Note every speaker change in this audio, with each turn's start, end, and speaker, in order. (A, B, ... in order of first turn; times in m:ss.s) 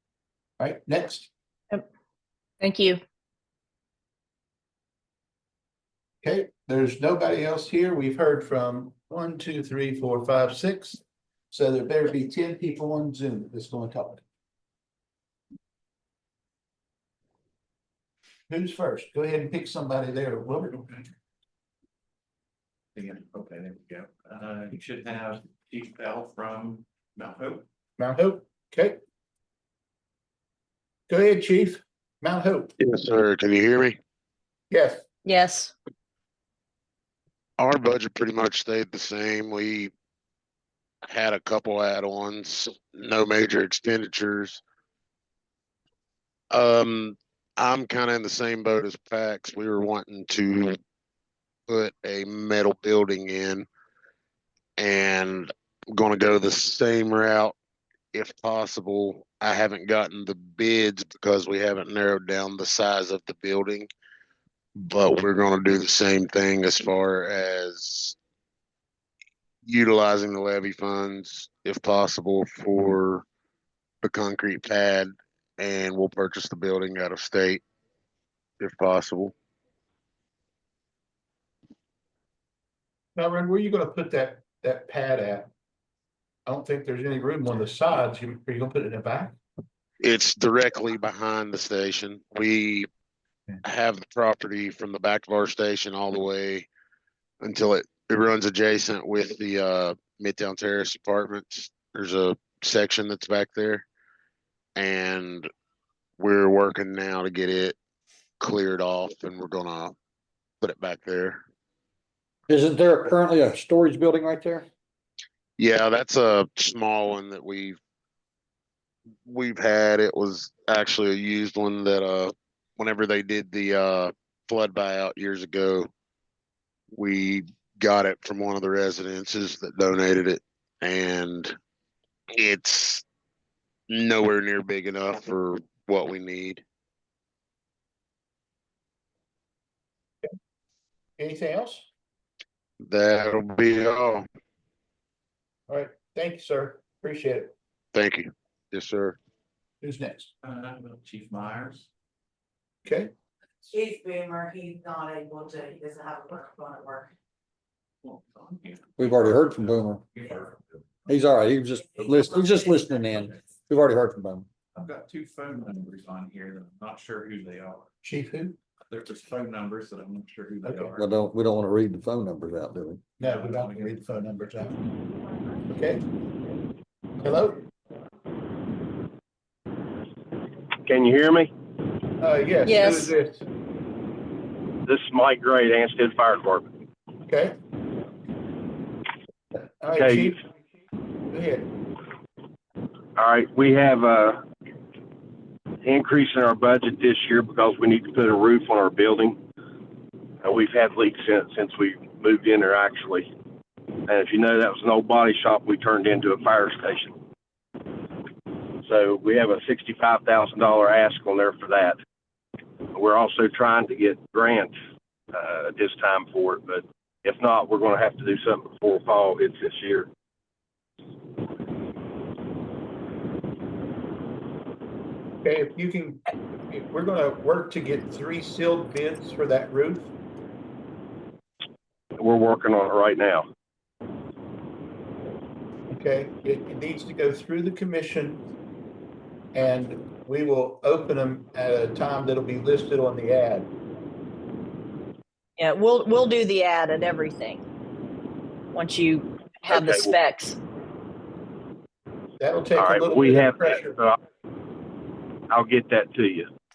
0:00.6-0:01.3 A
0:02.6-0:03.0 B
0:06.2-0:14.2 A
0:18.5-0:20.8 A
0:22.9-0:27.6 C
0:28.0-0:29.0 A
0:31.1-0:32.7 A
0:32.8-0:34.0 D
0:34.7-0:35.0 A
0:35.2-0:35.7 B
0:37.6-0:39.9 D
0:41.1-0:44.6 D
0:46.5-0:50.8 D
0:51.7-0:53.6 D
0:54.8-0:57.5 D
0:58.1-1:03.9 D
1:04.8-1:08.2 D
1:09.6-1:13.2 D
1:14.0-1:17.6 D
1:18.6-1:19.3 D
1:23.2-1:25.5 A
1:26.4-1:29.4 A
1:30.0-1:32.9 D
1:33.6-1:36.7 D
1:37.4-1:43.8 D
1:44.8-1:45.5 D
1:46.2-1:47.8 D
1:48.4-1:49.9 D
1:50.6-1:51.4 D
1:52.5-1:54.7 E
1:55.6-1:57.8 D
1:59.2-2:05.9 D
2:06.9-2:11.5 D
2:12.4-2:13.0 D
2:13.9-2:16.6 D
2:21.2-2:21.9 A
2:22.8-2:24.2 D
2:25.7-2:27.5 A
2:27.9-2:29.2 D
2:29.8-2:30.3 A
2:30.4-2:31.9 C
2:32.8-2:33.1 A
2:33.7-2:37.1 F
2:38.0-2:40.7 C
2:39.0-2:40.0 E
2:41.1-2:44.4 E
2:44.7-2:47.9 C
2:48.0-2:48.6 A
2:48.8-2:51.0 C
2:50.6-2:51.0 A
2:51.0-2:53.0 E
2:53.2-2:54.8 A
2:53.2-2:54.0 C
2:55.7-2:56.0 A
2:57.2-2:57.6 A
3:00.8-3:01.5 G
3:02.2-3:03.4 A
3:02.6-3:03.1 B
3:04.8-3:06.7 G
3:07.3-3:07.5 A
3:09.8-3:10.4 A
3:09.9-3:10.3 G
3:11.3-3:11.7 A
3:13.2-3:14.4 G
3:15.8-3:19.4 G
3:20.4-3:23.3 G
3:24.1-3:27.1 G
3:28.8-3:32.0 G
3:32.9-3:34.7 G
3:35.3-3:40.1 G
3:45.4-3:50.1 A
3:52.2-3:53.4 G
3:55.9-3:58.4 A
3:59.5-4:03.7 A
4:05.6-4:07.6 B
4:08.7-4:10.6 B
4:09.7-4:10.2 G
4:12.4-4:14.0 A
4:12.8-4:14.2 G
4:15.5-4:16.5 G